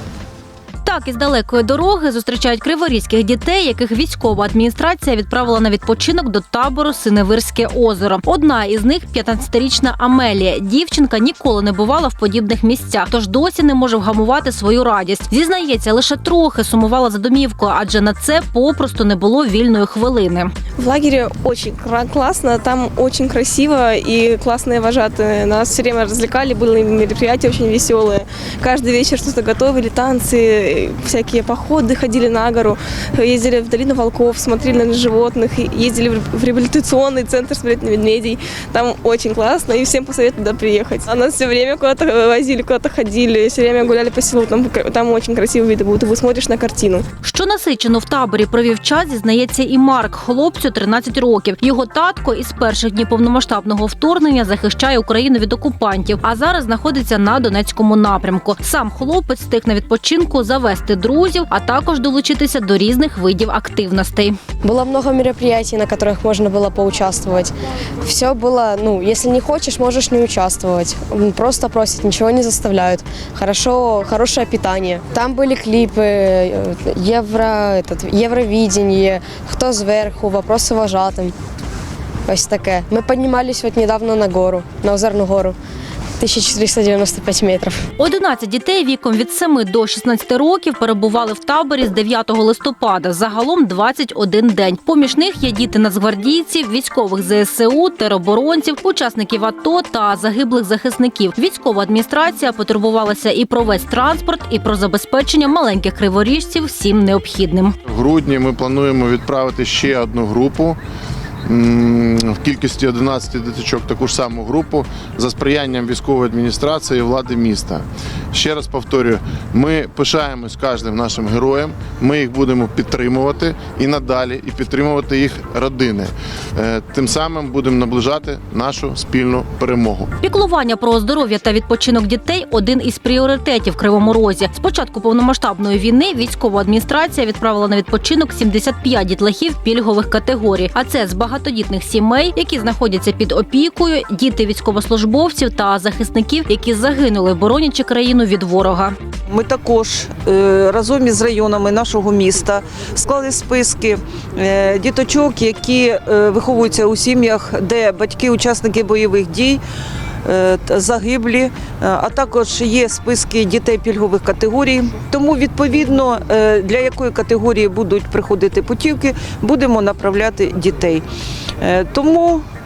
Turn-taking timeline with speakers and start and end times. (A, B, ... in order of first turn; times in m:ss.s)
0:00.8-0:20.5 A
0:20.8-0:47.0 B
0:47.2-1:04.4 A
1:04.6-1:21.3 C
1:22.3-1:25.6 C
1:26.2-1:27.8 C
1:28.0-1:47.7 A
1:47.8-1:50.8 D
1:51.5-2:10.1 D
2:10.2-2:28.9 A
2:29.3-2:39.6 E
2:40.2-2:51.0 E
2:51.6-2:52.4 E